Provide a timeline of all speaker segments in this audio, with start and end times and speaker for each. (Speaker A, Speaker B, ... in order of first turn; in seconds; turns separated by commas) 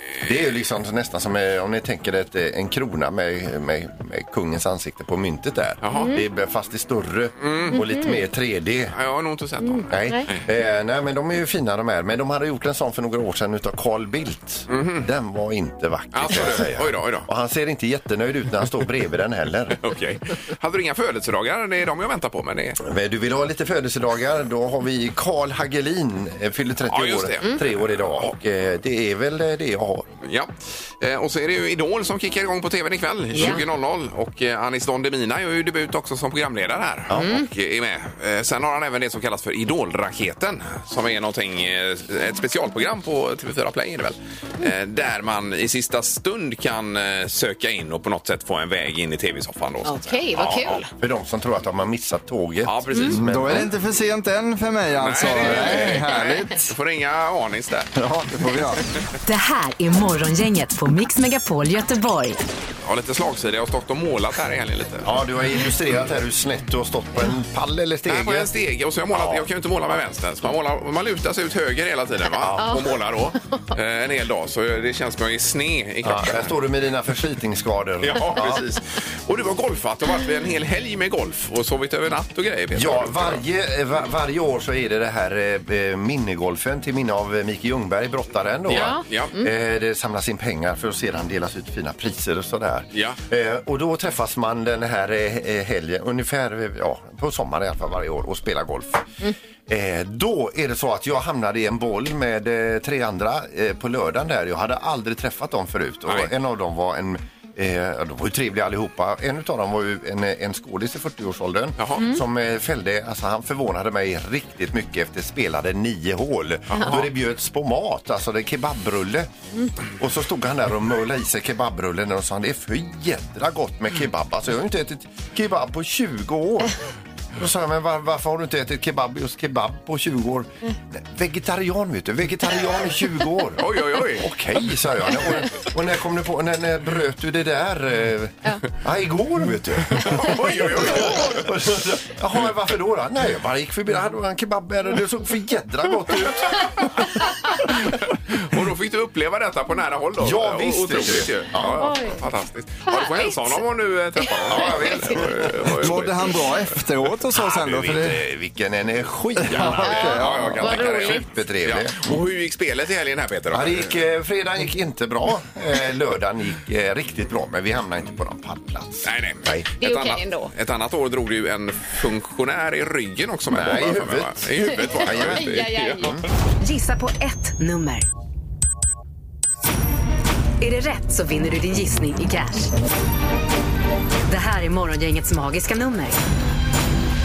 Speaker A: 0.2-8.9, Speaker B: 5.8-6.1, Speaker C: 5.9-6.2, Speaker B: 7.4-7.8, Speaker C: 7.7-8.2, Speaker B: 8.9-10.4, Speaker C: 9.6-10.3, Speaker A: 9.9-19.8, Speaker B: 14.7-15.1, Speaker B: 16.1-17.3, Speaker B: 19.8-22.8, Speaker A: 22.8-30.1, Speaker B: 26.9-28.3, Speaker B: 30.2-50.8, Speaker C: 33.3-33.6, Speaker C: 37.1-37.5, Speaker C: 49.8-50.9, Speaker A: 51.0-53.7, Speaker B: 52.6-53.7, Speaker D: 53.2-56.7, Speaker B: 55.0-57.9, Speaker D: 57.9-58.8, Speaker E: 59.2-62.4, Speaker B: 62.8-65.1, Speaker A: 65.0-68.5, Speaker B: 68.0-76.5, Speaker A: 69.1-69.5, Speaker A: 72.4-72.7, Speaker A: 76.0-78.6, Speaker B: 78.0-83.4, Speaker A: 82.7-99.1, Speaker B: 88.7-89.3, Speaker C: 88.7-89.5, Speaker B: 92.9-93.2, Speaker A: 99.7-119.3, Speaker B: 111.8-112.0, Speaker B: 116.7-117.1, Speaker A: 120.0-126.8, Speaker A: 127.4-147.2, Speaker B: 133.6-134.3, Speaker B: 140.0-141.5, Speaker B: 147.7-156.5, Speaker A: 150.2-151.8, Speaker C: 151.8-152.2, Speaker C: 152.9-153.6, Speaker A: 154.5-156.0, Speaker D: 155.8-158.2, Speaker A: 157.3-162.2, Speaker D: 159.4-160.7, Speaker B: 159.5-163.9, Speaker C: 159.9-161.2, Speaker A: 163.5-169.7, Speaker B: 169.0-176.1, Speaker C: 169.8-170.5, Speaker A: 173.5-176.3, Speaker C: 175.0-176.1, Speaker E: 176.6-178.1, Speaker E: 180.6-182.7, Speaker E: 184.3-186.2